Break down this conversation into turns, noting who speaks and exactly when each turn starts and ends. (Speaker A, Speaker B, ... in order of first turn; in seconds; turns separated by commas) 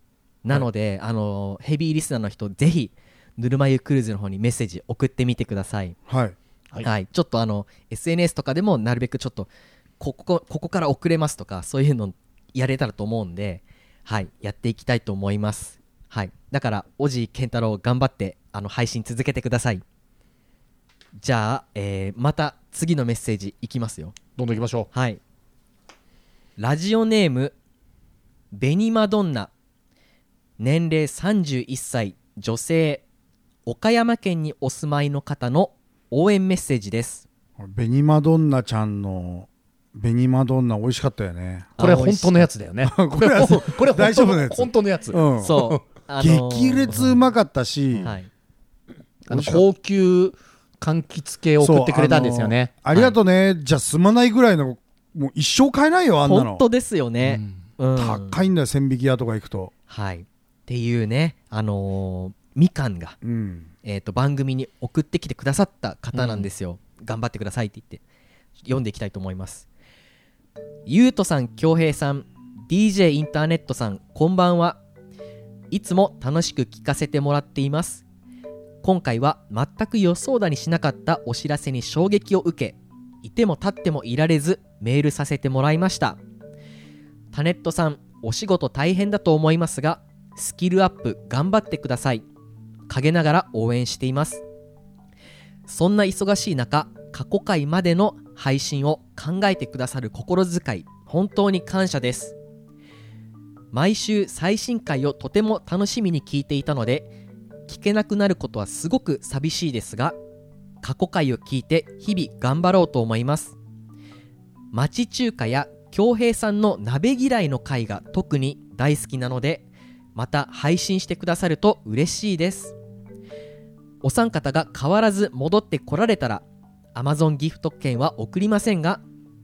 Speaker A: 0.4-6.0, Speaker B: 6.1-6.4, Speaker A: 6.8-19.8, Speaker A: 21.2-24.1, Speaker C: 24.4-24.9, Speaker A: 24.9-25.2, Speaker A: 26.6-27.5, Speaker A: 28.5-29.5, Speaker A: 30.6-33.0, Speaker A: 33.6-37.2, Speaker B: 37.6-42.0, Speaker A: 41.8-42.5, Speaker C: 41.8-45.8, Speaker B: 42.8-45.6, Speaker A: 45.4-47.0, Speaker B: 46.2-48.1, Speaker A: 48.0-48.3, Speaker C: 49.3-52.7, Speaker B: 49.3-49.6, Speaker B: 51.6-56.6, Speaker A: 52.9-53.2, Speaker A: 56.2-58.4, Speaker C: 57.2-57.6, Speaker B: 57.9-59.7, Speaker A: 59.9-63.2, Speaker B: 63.2-63.7, Speaker A: 63.8-68.0, Speaker C: 66.1-66.5, Speaker A: 68.6-69.7, Speaker A: 70.9-74.8, Speaker A: 75.7-78.0, Speaker A: 78.8-86.2, Speaker A: 87.3-92.2, Speaker A: 92.9-94.4, Speaker A: 95.7-102.3, Speaker A: 103.7-107.1, Speaker A: 107.7-110.2, Speaker A: 110.8-113.5, Speaker A: 114.7-122.7, Speaker A: 124.0-126.4, Speaker A: 126.9-129.0